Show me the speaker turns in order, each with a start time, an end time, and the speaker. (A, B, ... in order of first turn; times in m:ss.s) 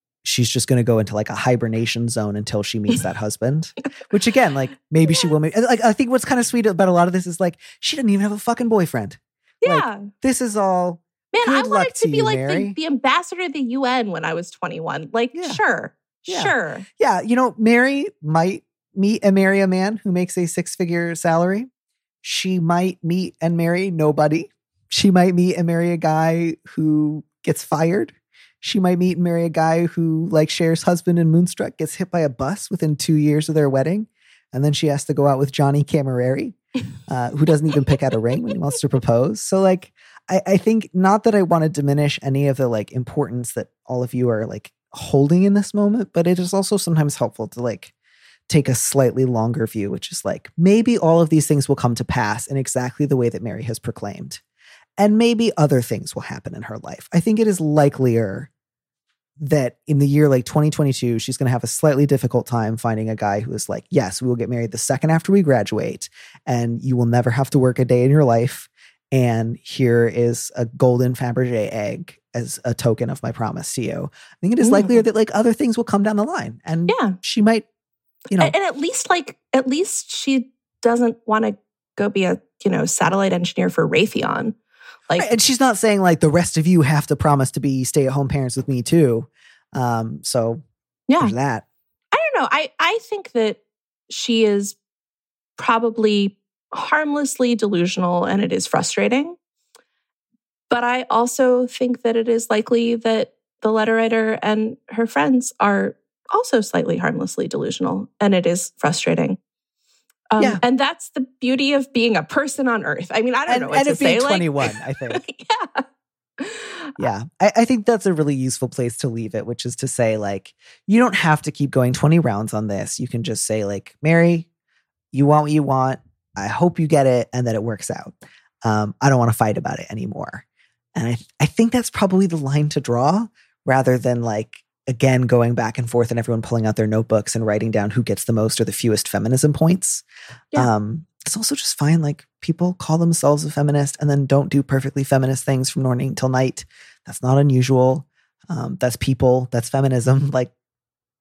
0:00.2-0:12.8 A
0:09.6-0:10.1 B
0:11.3-0:16.9 B
0:15.3-0:15.6 A
0:16.3-0:21.7 A
0:22.2-0:47.9 A
0:48.5-0:54.4 A
0:55.0-0:58.5 A
0:59.4-1:17.7 A
1:14.6-1:15.0 B
1:16.9-1:17.2 B
1:18.4-1:24.6 B
1:25.2-1:30.6 A
1:31.1-1:31.3 B
1:31.2-1:31.6 A
1:32.1-1:34.8 B
1:35.6-1:39.4 B
1:40.7-1:49.4 B
1:50.3-1:54.6 B
1:53.5-1:55.2 A
1:55.1-1:55.8 B
1:56.4-1:56.9 B
1:57.0-2:04.5 A
2:05.1-2:10.4 A
2:11.0-2:20.0 A
2:20.6-2:30.5 A